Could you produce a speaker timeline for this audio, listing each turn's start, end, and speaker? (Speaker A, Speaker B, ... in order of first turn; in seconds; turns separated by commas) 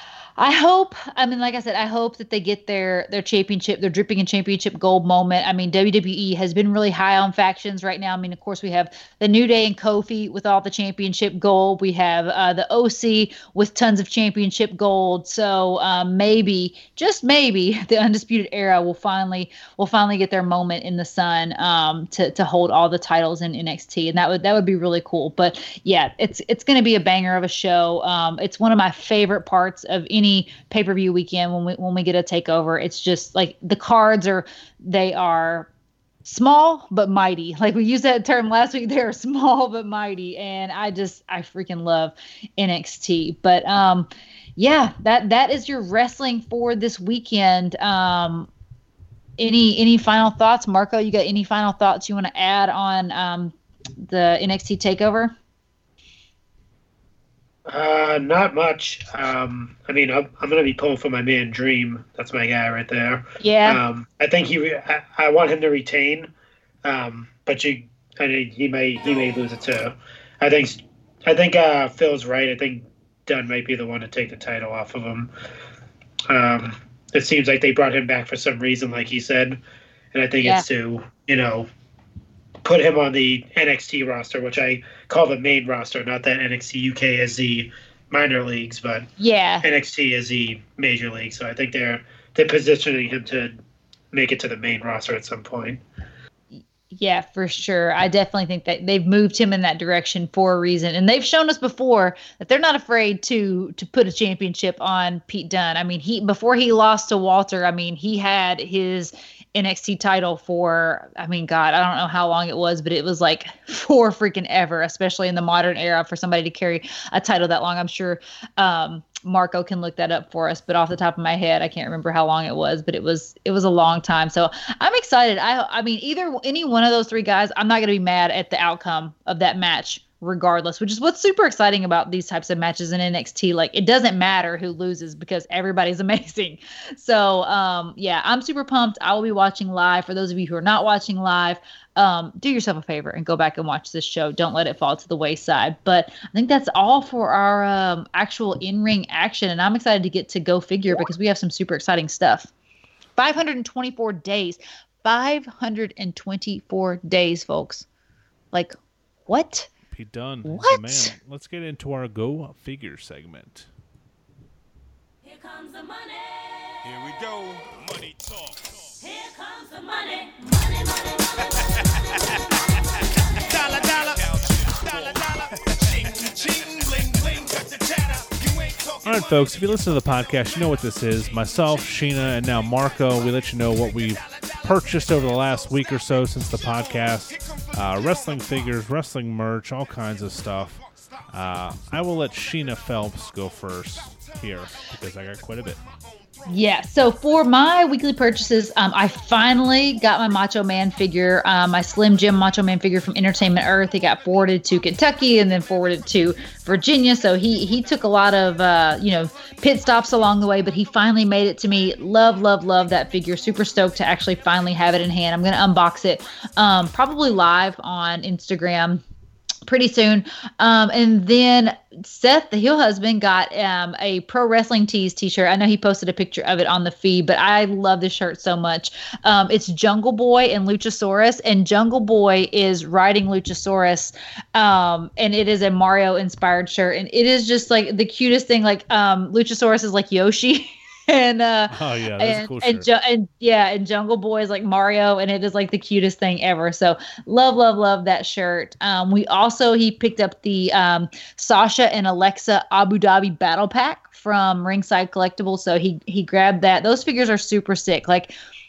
Speaker A: 0.4-35.7, Speaker A: 36.2-48.5, Speaker A: 49.4-55.3, Speaker B: 57.7-66.3, Speaker A: 63.4-63.8, Speaker B: 66.8-75.3, Speaker B: 76.3-79.6, Speaker B: 80.1-81.7, Speaker B: 82.6-89.1, Speaker A: 89.2-89.7, Speaker B: 89.6-93.5, Speaker B: 94.1-95.8, Speaker A: 96.9-152.5, Speaker A: 153.2-157.8, Speaker A: 159.3-159.7, Speaker C: 159.9-163.7, Speaker A: 160.4-161.1, Speaker D: 165.4-166.4, Speaker E: 166.8-168.3, Speaker D: 169.2-171.2, Speaker E: 173.7-175.5, Speaker E: 176.1-178.9, Speaker C: 179.0-195.8, Speaker A: 196.5-219.0, Speaker A: 219.7-258.3, Speaker C: 241.7-242.9